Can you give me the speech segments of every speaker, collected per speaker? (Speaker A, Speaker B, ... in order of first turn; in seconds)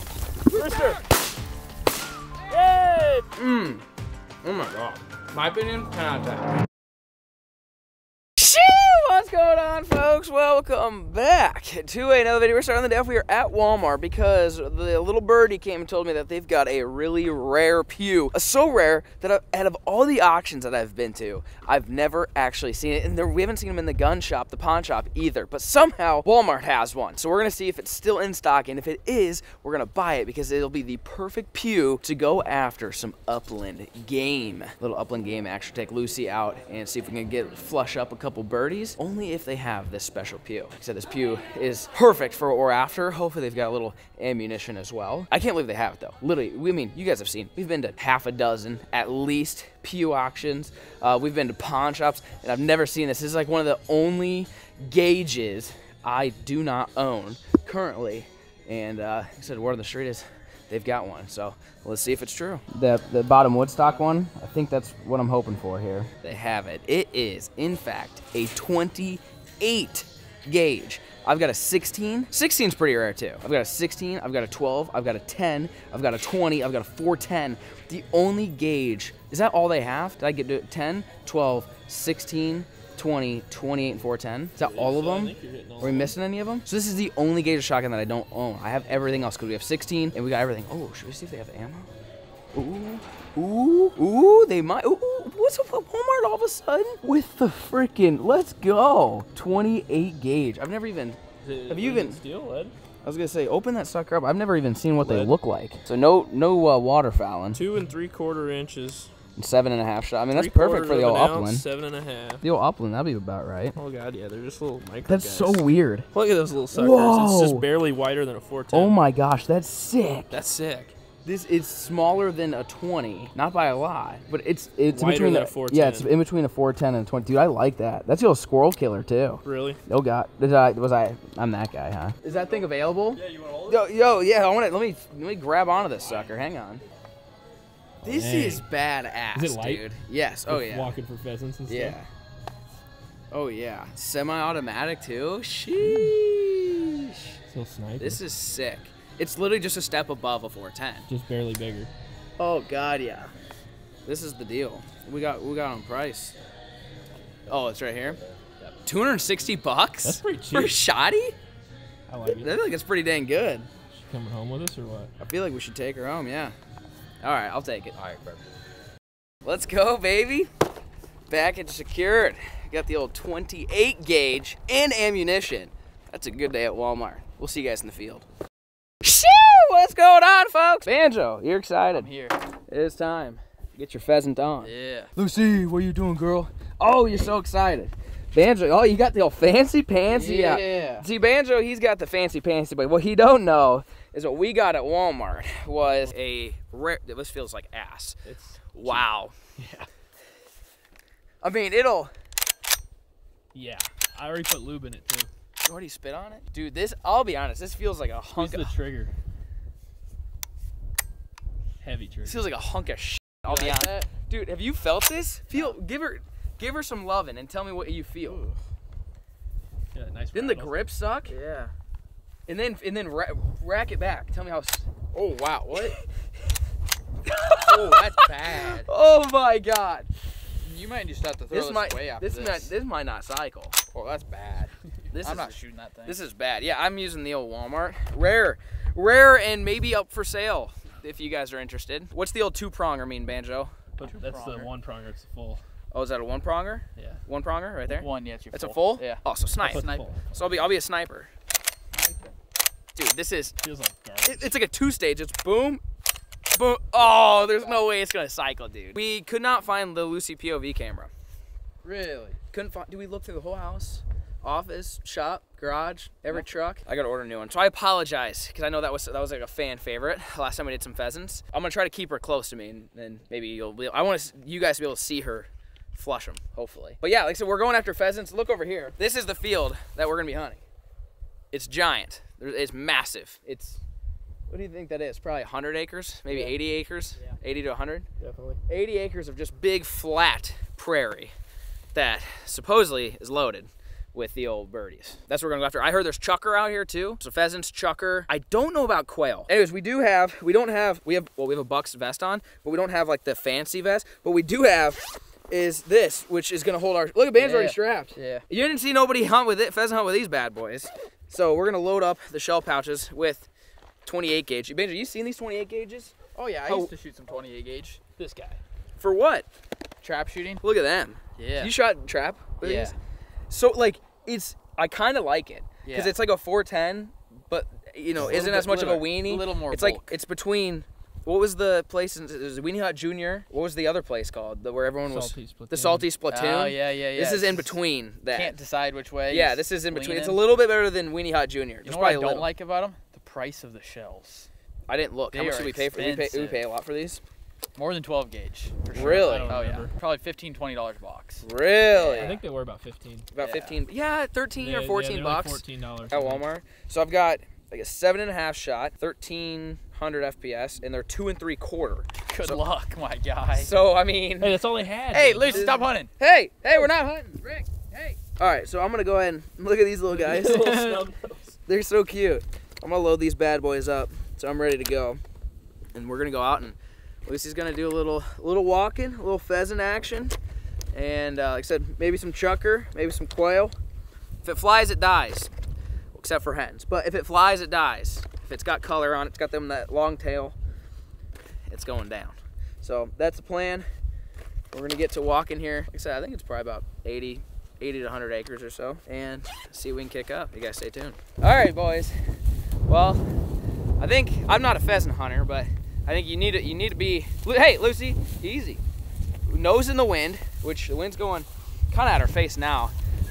Speaker A: 0.5-1.0, 3.3-3.8, 4.4-6.5, 8.4-91.9, 92.5-102.2, 103.0-107.6, 109.4-111.6, 112.4-113.8, 115.1-116.1, 116.7-117.7, 118.7-120.3, 121.2-136.8, 138.0-140.9, 141.7-142.1, 143.3-147.3, 148.0-151.0, 152.4-153.3, 154.0-156.3, 157.5-158.2, 158.8-161.3, 162.2-163.7, 165.2-166.5, 167.2-167.9, 169.4-170.5, 171.3-178.2, 179.0-182.1, 182.7-198.2, 198.7-199.3, 201.4-202.1, 205.6-208.7, 212.2-218.4, 220.3-221.3, 222.5-226.0, 227.2-230.1, 231.5-233.8, 235.1-243.8, 245.9-251.3, 252.9-253.5, 254.2-255.8, 256.5-261.1, 262.5-280.6, 281.5-283.8, 284.5-288.1, 288.7-291.3, 291.9-313.5, 314.1-316.1, 319.0-319.4, 320.6-322.9, 323.5-338.6, 339.3-342.5, 344.9-347.2, 348.9-349.6, 351.4-352.4, 353.3-362.6, 363.5-364.5, 365.4-367.4, 368.2-371.0, 371.7-375.2, 375.9-380.3, 380.9-383.7, 384.4-385.5, 386.1-390.5, 391.7-393.9, 394.7-402.1, 402.9-403.3, 404.0-408.8, 409.4-412.9
Speaker B: 0.5-1.0, 2.5-3.3, 84.6-86.2, 101.4-102.7, 105.0-105.3, 107.5-109.1, 110.3-112.4, 113.8-119.0, 120.3-120.9, 124.9-126.1, 129.4-129.8, 138.0-138.6, 139.3-139.8, 140.5-142.0, 145.8-146.2, 147.5-148.2, 151.1-151.9, 160.0-160.8, 162.1-162.5, 163.9-165.1, 198.2-199.0, 199.6-199.8, 203.5-205.3, 208.3-209.1, 211.8-212.4, 219.9-220.8, 244.0-245.6, 247.0-247.2, 249.6-250.6, 253.6-254.5, 288.2-288.6, 318.2-318.6, 335.1-336.1, 348.9-349.9, 351.9-353.3, 354.6-356.4, 364.4-365.7, 370.1-371.5
Speaker C: 132.2-133.9, 136.0-136.3, 167.9-168.4, 181.9-182.4, 184.6-185.1, 190.1-191.1, 213.5-214.1, 218.2-218.6, 221.3-221.7, 227.6-228.9, 230.6-232.7, 233.9-236.2, 244.0-244.7, 247.9-250.1, 251.9-252.3, 257.0-257.9, 261.8-262.4, 307.4-308.4, 316.3-318.0, 320.0-320.6, 321.4-321.7, 322.6-323.0, 325.8-326.1, 328.1-330.2, 336.3-337.8, 338.3-340.4, 341.8-344.5, 345.3-346.6, 347.8-351.4, 353.4-353.8, 362.3-363.7, 365.1-366.1, 366.8-368.2, 370.4-370.8